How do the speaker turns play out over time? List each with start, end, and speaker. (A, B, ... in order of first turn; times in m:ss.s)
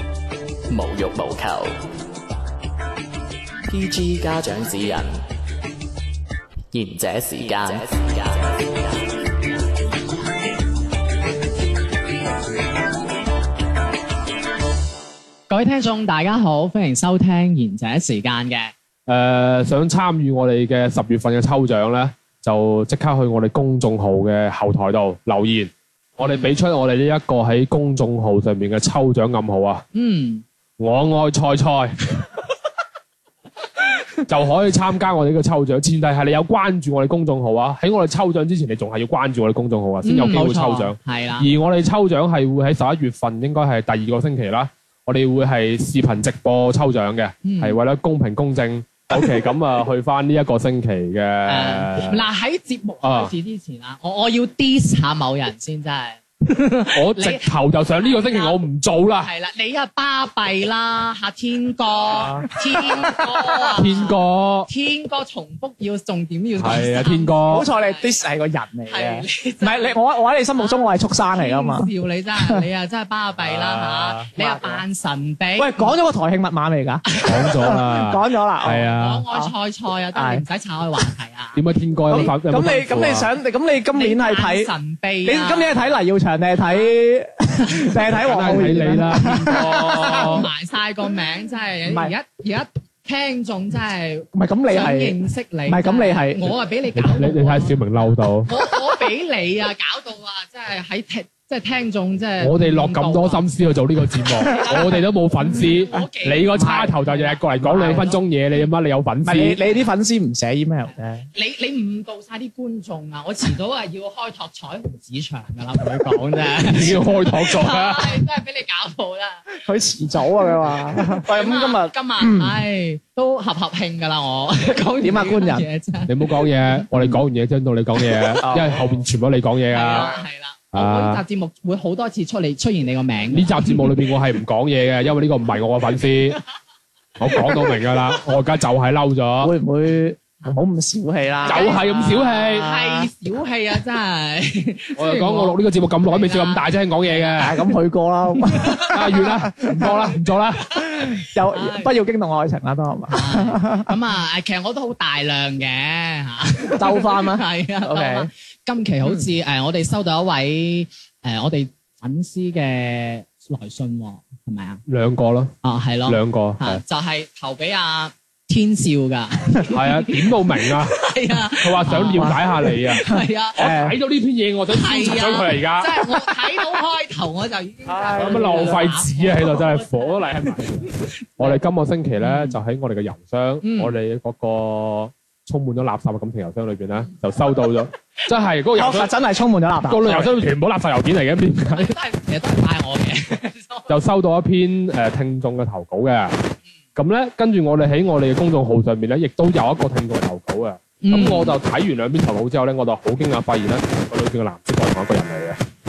0:00.7-0:01.8 A
0:03.7-0:05.2 A
0:06.7-0:09.0 A
0:15.5-0:18.7 B
0:19.1-0:29.8 C
0:26.2-0:26.5 B
0:29.9-0:30.4 B
0:30.8-0:32.0 C
0:34.3-0:52.3 C
0:40.0-0:41.5 B
0:47.4-0:47.8 B
0:51.5-0:58.6 B
0:53.0-0:53.3 C
0:56.9-0:59.3 C
0:59.2-1:04.1 B
1:02.1-1:03.6 D
1:03.8-1:04.7 C
1:04.7-1:08.1 B
1:06.6-1:07.7 C
1:07.5-1:12.6 D
1:08.9-1:10.0 B
1:10.6-1:15.9 B
1:13.4-1:14.3 C
1:14.4-1:14.8 D
1:15.6-1:19.5 D
1:17.2-1:19.2 C
1:19.0-1:22.3 B
1:20.1-1:20.4 D
1:21.5-1:23.3 C
1:22.1-1:24.7 D
1:24.0-1:25.9 B
1:25.2-1:30.4 D
1:28.1-1:30.5 C
1:29.6-1:37.8 B
1:31.9-1:32.1 D
1:34.3-1:35.2 D
1:35.7-1:36.5 D
1:37.0-1:38.5 C
1:38.4-1:43.5 B
1:42.4-1:49.6 C
1:44.4-1:48.2 B
1:46.5-1:47.0 D
1:47.6-1:48.0 D
1:49.3-1:51.3 D
1:51.3-1:59.5 B
1:56.6-1:58.2 C
1:59.6-2:02.6 D
2:00.9-2:06.8 B
2:05.0-2:05.7 D
2:06.1-2:10.2 C
2:06.9-2:07.2 D
2:08.4-2:09.0 D
2:09.7-2:13.9 B
2:10.7-2:11.2 C
2:13.3-2:16.4 C
2:17.2-2:19.5 C
2:19.4-2:21.8 D
2:21.4-2:27.7 B
2:21.4-2:22.7 C
2:22.6-2:23.1 D
2:25.0-2:27.6 C
2:27.4-2:29.9 D
2:28.4-2:28.9 B
2:28.9-2:30.8 C
2:30.8-2:33.9 D
2:30.8-2:31.9 B
2:33.1-2:44.8 B
2:36.8-2:38.3 D
2:44.9-2:45.6 C
2:45.6-2:53.6 B
2:46.1-2:46.8 C
2:49.7-2:56.0 C
2:52.1-2:52.4 D
2:53.1-2:54.0 D
2:54.7-3:01.5 B
2:57.9-2:58.9 D
2:58.1-3:09.1 C
3:02.2-3:02.6 B
3:03.6-3:03.9 B
3:08.8-3:10.4 D
3:09.8-3:12.0 C
3:11.7-3:13.9 B
3:13.9-3:16.4 C
3:17.0-3:25.6 C
3:21.0-3:21.6 B